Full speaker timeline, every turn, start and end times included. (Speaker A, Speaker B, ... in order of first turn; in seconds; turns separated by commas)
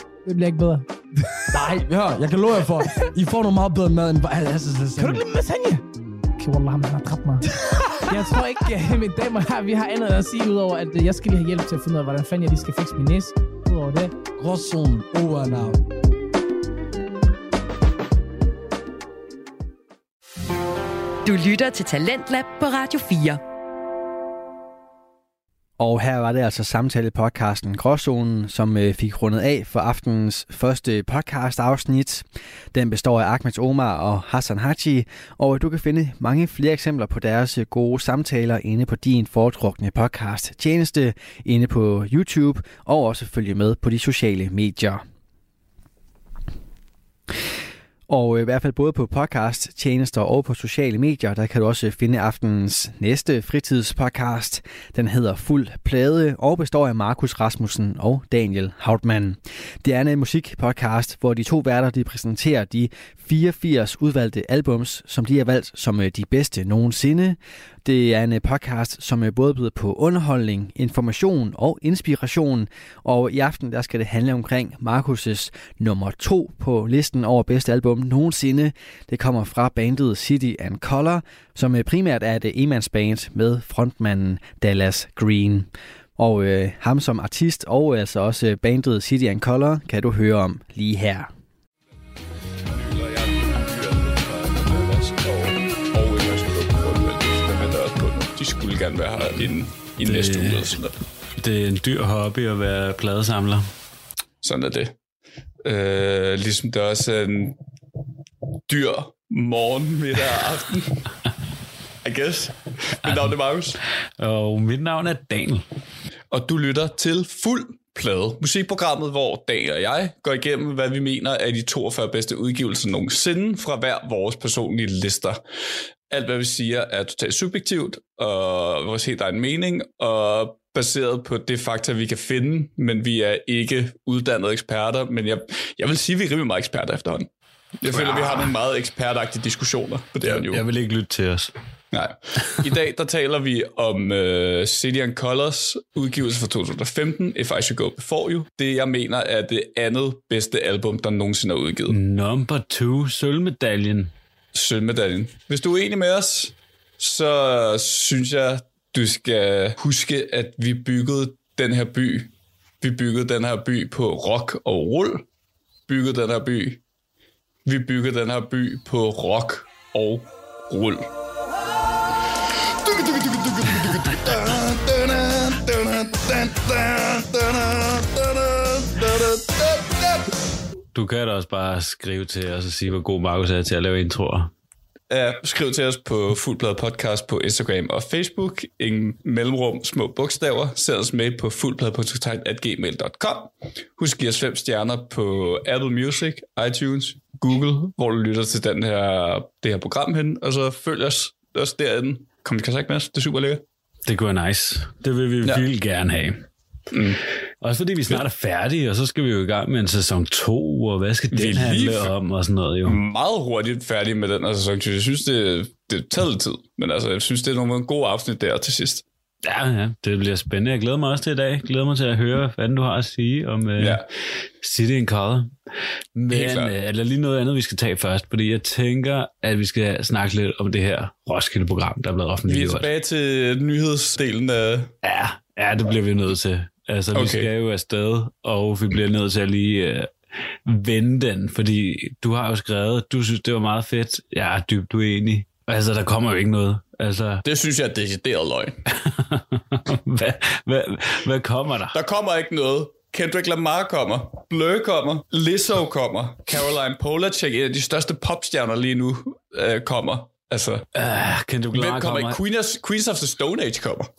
Speaker A: 0.2-1.6, Speaker B: 1.5-5.2, Speaker A: 5.0-5.8, Speaker A: 6.4-14.1, Speaker B: 7.6-8.2, Speaker B: 14.4-15.8, Speaker C: 21.2-23.4, Speaker D: 25.8-45.0, Speaker D: 48.1-91.3, Speaker E: 92.7-101.0, Speaker F: 100.0-100.8, Speaker F: 101.4-103.7, Speaker E: 104.4-105.0, Speaker E: 105.6-107.6, Speaker E: 108.7-111.1, Speaker E: 112.0-113.8, Speaker F: 113.0-113.4, Speaker F: 114.2-115.7, Speaker E: 116.3-125.4, Speaker E: 126.1-137.3, Speaker E: 137.8-140.7, Speaker F: 137.9-138.6, Speaker F: 140.2-141.5, Speaker E: 141.9-152.0, Speaker F: 151.9-154.1, Speaker E: 154.5-165.2, Speaker E: 165.9-166.8, Speaker E: 167.7-171.1, Speaker E: 172.8-180.4, Speaker F: 180.9-184.5, Speaker E: 185.1-203.6, Speaker F: 204.1-206.5, Speaker E: 206.9-207.2, Speaker F: 207.6-213.0, Speaker E: 211.3-212.1, Speaker E: 212.8-219.1, Speaker F: 219.4-224.1, Speaker E: 223.8-224.1, Speaker F: 224.6-225.5, Speaker F: 226.2-232.9, Speaker E: 226.3-226.7, Speaker E: 232.5-234.9, Speaker F: 235.0-240.1, Speaker E: 237.1-237.5, Speaker F: 240.7-247.4, Speaker E: 247.4-248.8, Speaker F: 249.0-252.0, Speaker E: 251.9-260.9, Speaker F: 260.9-262.4, Speaker E: 261.7-264.1